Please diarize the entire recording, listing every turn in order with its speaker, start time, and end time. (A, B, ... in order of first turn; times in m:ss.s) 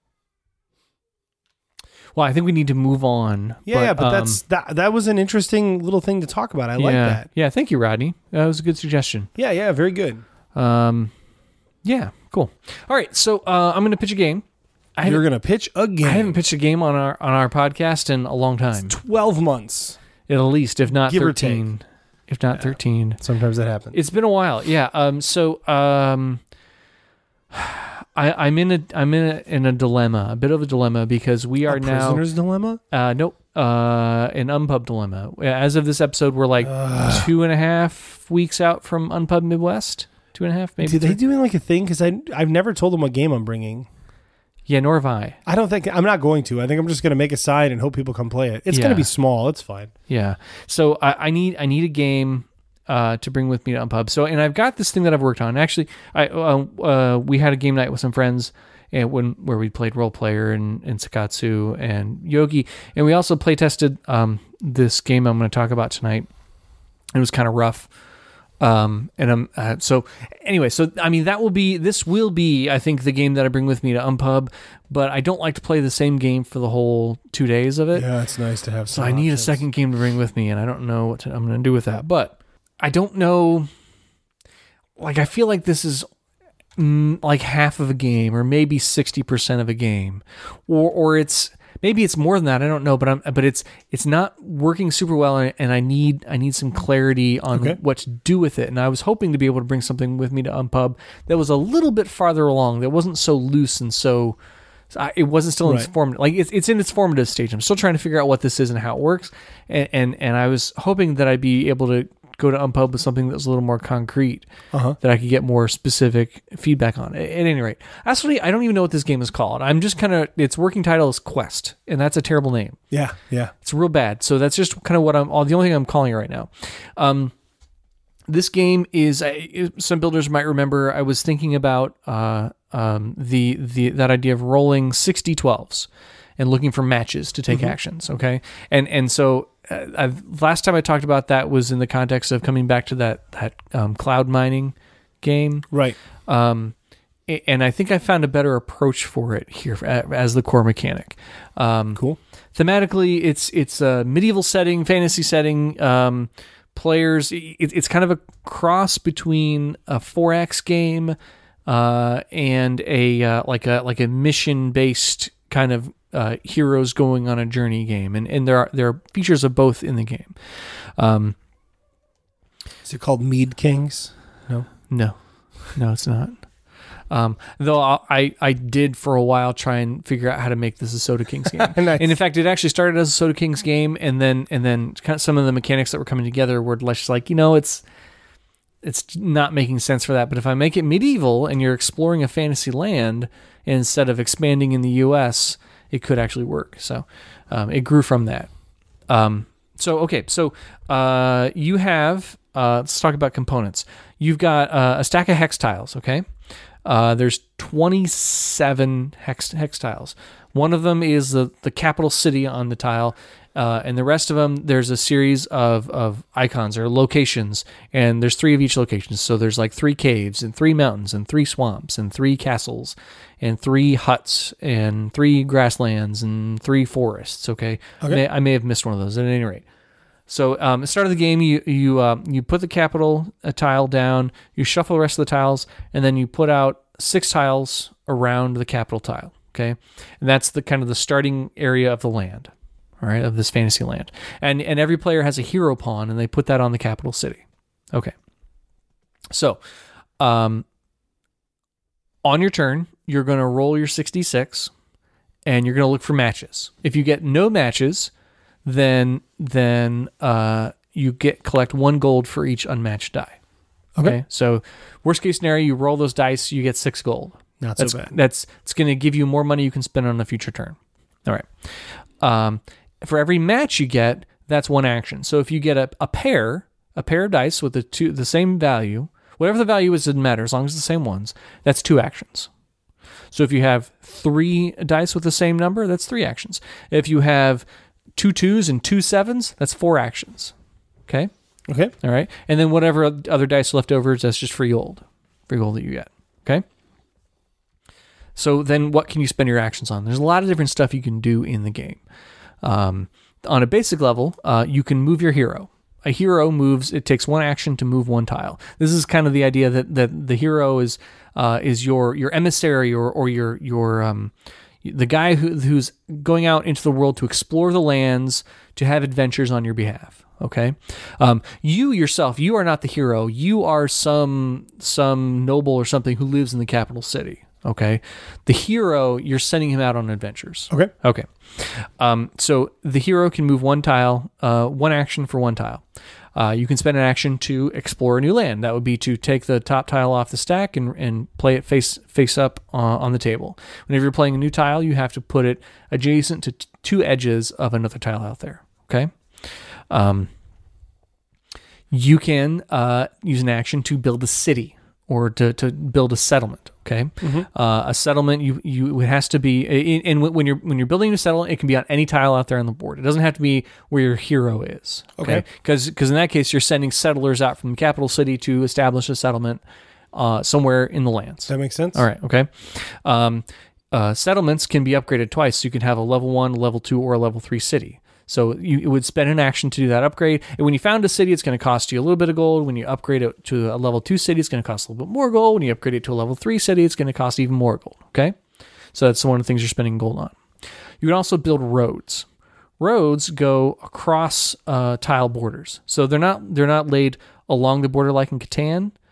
0:02.2-0:04.4 A
0:03.7-0:07.3 B
0:06.8-0:09.3 A
0:09.4-0:10.2 B
0:10.6-0:11.1 A
0:11.8-0:14.4 A
0:15.0-0:15.2 A
0:15.0-0:16.4 B
0:16.0-0:19.0 A
0:18.8-0:20.0 B
0:20.3-0:23.2 A
0:21.0-0:21.6 B
0:23.2-0:24.0 B
0:23.9-0:26.4 A
0:27.5-0:32.2 A
0:31.7-0:32.8 B
0:32.9-0:41.2 A
0:36.6-0:37.3 B
0:40.8-0:43.9 B
0:44.7-0:45.4 A
0:45.5-0:49.9 B
0:48.7-0:49.1 A
0:50.1-1:06.3 A
1:07.1-1:07.9 A
1:08.6-1:18.1 A
1:17.9-1:19.6 B
1:18.9-1:23.7 A
1:25.0-1:26.1 A
1:26.8-1:44.4 A
1:37.5-1:37.8 B
1:44.9-1:54.5 A
1:45.6-1:45.9 B
1:54.7-1:55.0 B
1:55.0-2:02.8 A
2:02.9-2:03.5 B
2:03.6-2:07.3 A
2:08.3-2:15.9 A
2:16.4-2:25.7 A
2:17.5-2:17.8 B
2:25.7-2:26.0 B
2:26.3-2:26.8 A
2:27.3-2:32.0 A
2:32.6-2:51.4 A
2:52.8-2:54.7 B
2:54.9-2:56.5 A
2:57.1-3:07.8 A
3:01.6-3:02.1 B
3:08.8-3:18.5 A
3:19.1-3:26.3 A
3:26.8-3:49.6 A
3:50.3-4:08.1 A
4:09.3-4:09.6 A
4:10.2-4:10.6 A
4:12.2-4:14.7 A
4:15.4-4:18.1 A
4:18.6-4:23.4 A
4:24.0-4:42.5 A
4:27.6-4:28.1 B
4:43.3-4:50.5 A
4:51.7-4:51.9 B
4:52.0-4:56.6 A
4:58.4-5:02.0 A
5:02.6-5:14.3 A
5:14.8-5:35.8 A
5:36.4-5:50.3 A
5:51.9-6:09.6 A
5:57.2-5:57.5 B
6:05.2-6:05.4 B
6:10.1-6:28.4 A
6:11.5-6:12.0 B
6:28.9-6:30.4 A
6:31.0-6:32.3 A
6:32.8-6:38.9 A